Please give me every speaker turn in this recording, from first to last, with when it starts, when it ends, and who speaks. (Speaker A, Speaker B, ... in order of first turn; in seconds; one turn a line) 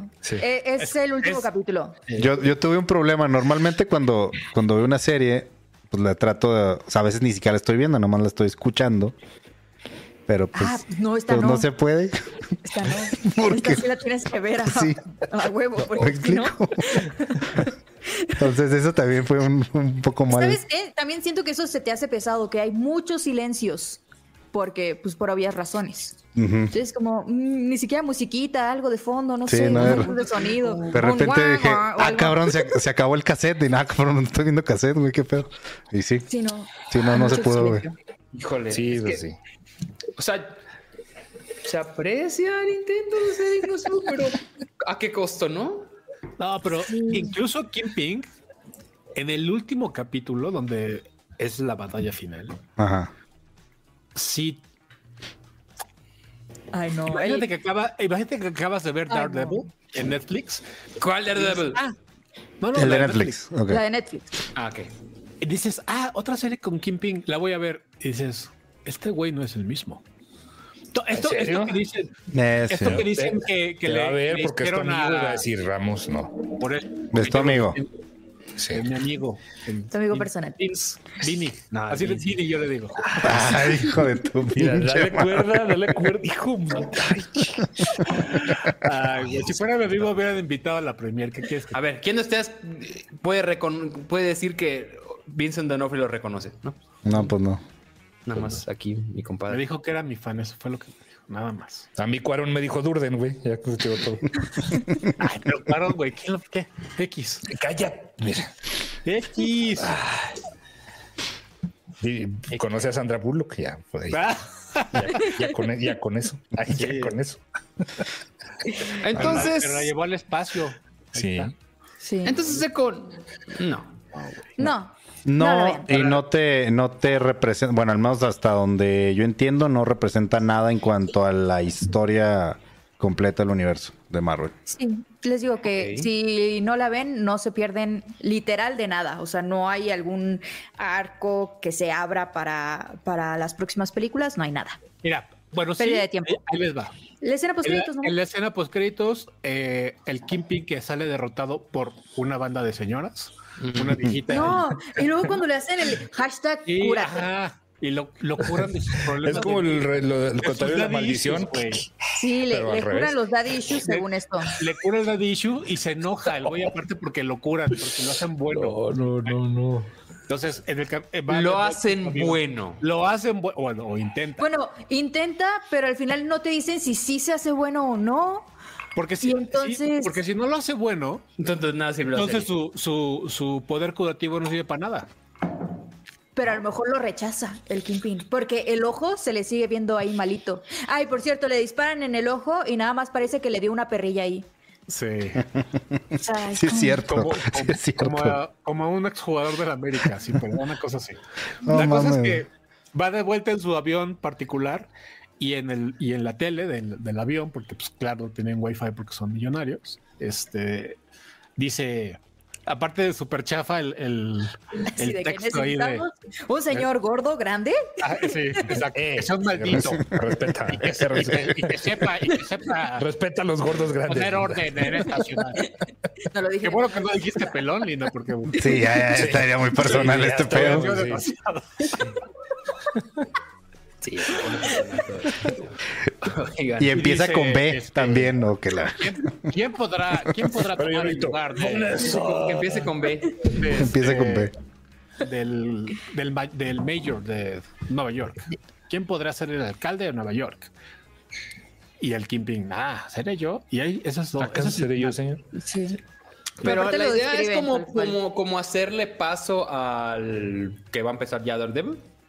Speaker A: 0.4-2.0
Speaker B: 0.8-1.5
Speaker B: 2.1-2.4
Speaker C: 2.2-9.1
Speaker C: 10.3-12.2
Speaker A: 10.5-11.7
Speaker A: 12.6-17.7
Speaker C: 13.1-13.8
Speaker C: 14.6-15.0
Speaker C: 15.8-17.6
Speaker C: 18.4-20.6
Speaker A: 20.3-24.0
Speaker A: 24.5-26.1
Speaker C: 26.4-26.7
Speaker A: 26.7-32.7
Speaker C: 29.5-30.1
Speaker D: 29.7-31.2
Speaker C: 30.9-36.3
Speaker A: 36.3-37.9
Speaker C: 36.8-37.9
Speaker D: 38.3-39.2
Speaker E: 38.7-39.4
Speaker D: 40.2-40.6
Speaker D: 41.6-45.9
Speaker B: 46.4-48.3
Speaker A: 46.8-47.3
Speaker B: 49.1-52.6
Speaker C: 52.8-53.1
Speaker B: 54.1-54.6
Speaker A: 56.7-57.5
Speaker B: 57.1-60.6
Speaker A: 59.1-59.6
Speaker D: 61.0-61.8
Speaker B: 61.3-61.9
Speaker B: 62.6-63.4
Speaker C: 62.7-63.8
Speaker A: 63.7-64.3
Speaker D: 64.5-64.9
Speaker B: 65.4-70.0
Speaker B: 70.9-72.1
Speaker E: 71.1-71.8
Speaker C: 72.3-73.1
Speaker B: 72.7-75.5
Speaker E: 73.0-76.5
Speaker B: 76.5-77.9
Speaker C: 77.1-77.8
Speaker E: 78.6-78.8
Speaker B: 78.7-83.6
Speaker A: 79.9-80.6
Speaker D: 81.8-82.3
Speaker C: 83.2-85.5
Speaker E: 83.3-83.6
Speaker E: 84.5-88.1
Speaker B: 88.1-91.8
Speaker D: 91.7-96.8
Speaker C: 97.0-97.6
Speaker D: 98.2-99.6
Speaker B: 99.5-101.9
Speaker E: 102.0-104.5
Speaker B: 105.2-107.5
Speaker E: 107.5-108.5
Speaker B: 109.0-110.0
Speaker E: 109.8-110.4
Speaker E: 112.0-114.2
Speaker B: 114.1-115.3
Speaker E: 114.9-117.4
Speaker B: 116.7-117.1
Speaker D: 119.0-119.9
Speaker B: 119.1-121.5
Speaker E: 121.1-121.5
Speaker A: 122.0-122.4
Speaker D: 122.2-124.0
Speaker B: 124.1-124.5
Speaker A: 124.6-125.9
Speaker C: 125.2-134.5
Speaker A: 134.7-144.8
Speaker D: 135.7-136.1
Speaker B: 145.0-146.9
Speaker A: 145.8-146.4
Speaker A: 147.2-148.2
Speaker B: 147.6-154.8
Speaker D: 153.6-154.0
Speaker A: 154.3-157.2
Speaker B: 156.7-161.8
Speaker E: 159.1-161.7
Speaker A: 162.1-164.5
Speaker E: 162.4-163.2
Speaker B: 163.7-169.3
Speaker E: 168.5-169.9
Speaker B: 170.3-174.4
Speaker D: 171.3-172.8
Speaker A: 174.4-178.5
Speaker B: 178.9-181.2
Speaker A: 179.2-180.2
Speaker D: 181.4-182.5
Speaker B: 182.1-185.1
Speaker A: 186.3-194.5
Speaker B: 194.9-195.4
Speaker C: 195.6-198.4
Speaker A: 196.2-197.0
Speaker B: 196.9-211.0
Speaker C: 201.6-202.4
Speaker B: 211.6-216.0
Speaker A: 214.9-218.8
Speaker B: 218.0-223.1
Speaker E: 218.8-221.9
Speaker E: 223.0-224.8
Speaker B: 224.1-225.7
Speaker A: 226.2-227.6
Speaker B: 226.6-232.1
Speaker C: 228.6-231.0
Speaker E: 229.1-231.3
Speaker E: 232.9-233.2
Speaker D: 234.0-237.0
Speaker C: 236.8-239.3
Speaker B: 236.9-238.4
Speaker B: 239.0-242.3
Speaker E: 240.7-242.8
Speaker D: 241.6-243.4
Speaker B: 243.5-244.5
Speaker C: 243.7-244.5
Speaker B: 245.2-250.7
Speaker B: 252.0-255.2
Speaker E: 254.4-255.4
Speaker A: 255.5-256.0
Speaker A: 256.6-258.2
Speaker D: 256.6-262.0